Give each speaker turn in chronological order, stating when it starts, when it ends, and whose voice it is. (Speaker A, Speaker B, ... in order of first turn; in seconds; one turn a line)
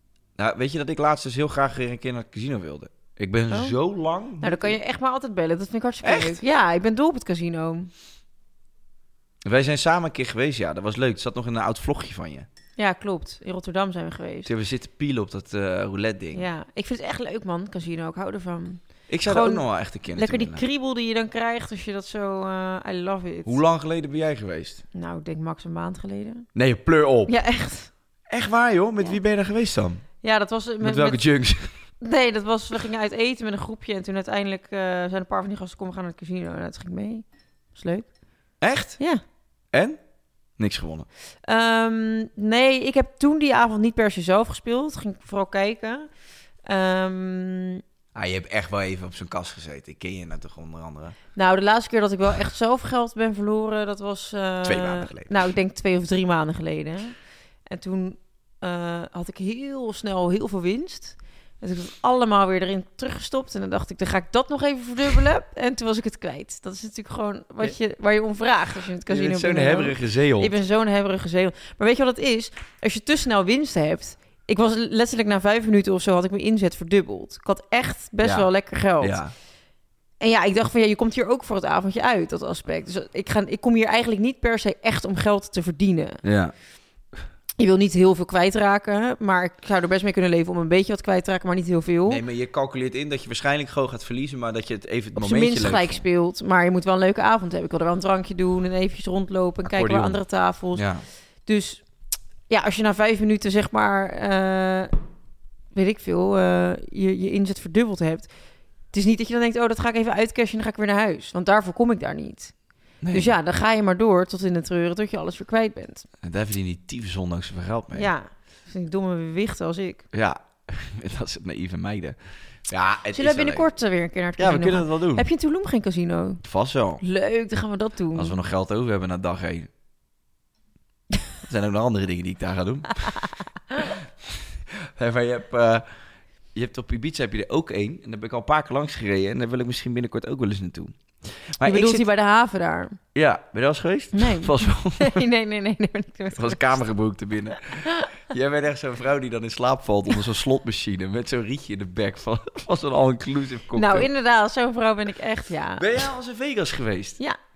Speaker A: 0.3-4.8
Speaker B: 4.4-7.9
Speaker A: 6.0-6.4
Speaker A: 9.4-12.5
Speaker B: 12.8-14.5
Speaker A: 14.4-16.4
Speaker B: 16.3-23.6
Speaker A: 19.1-20.6
Speaker A: 23.4-24.8
Speaker B: 24.9-26.5
Speaker A: 26.5-27.4
Speaker B: 27.3-27.9
Speaker A: 28.3-30.0
Speaker B: 30.2-31.2
Speaker A: 30.8-31.8
Speaker B: 32.0-38.1
Speaker A: 38.6-39.0
Speaker A: 39.7-40.0
Speaker A: 40.6-41.1
Speaker B: 41.4-46.1
Speaker B: 46.6-47.8
Speaker A: 48.1-51.2
Speaker B: 51.3-57.1
Speaker A: 54.6-55.4
Speaker B: 57.7-79.2
Speaker A: 69.1-70.5
Speaker A: 78.2-79.3
Speaker B: 80.2-86.2
Speaker A: 86.2-86.5
Speaker B: 87.6-92.2
Speaker A: 92.1-96.0
Speaker B: 95.2-100.8
Speaker A: 99.7-100.2
Speaker A: 100.7-101.0
Speaker B: 101.5-101.8
Speaker B: 102.5-104.9
Speaker B: 105.7-108.3
Speaker B: 108.9-112.5
Speaker A: 113.0-113.3
Speaker B: 113.1-116.0
Speaker A: 116.2-118.1
Speaker B: 117.9-120.0
Speaker A: 120.1-123.7
Speaker B: 123.1-126.4
Speaker A: 124.4-125.2
Speaker A: 126.4-127.0
Speaker B: 127.0-128.3
Speaker A: 128.1-129.7
Speaker A: 131.4-133.2
Speaker A: 133.8-135.9
Speaker A: 136.5-142.1
Speaker B: 141.6-143.0
Speaker A: 143.1-145.2
Speaker B: 144.1-146.8
Speaker A: 146.3-154.1
Speaker B: 153.7-156.1
Speaker A: 155.8-157.2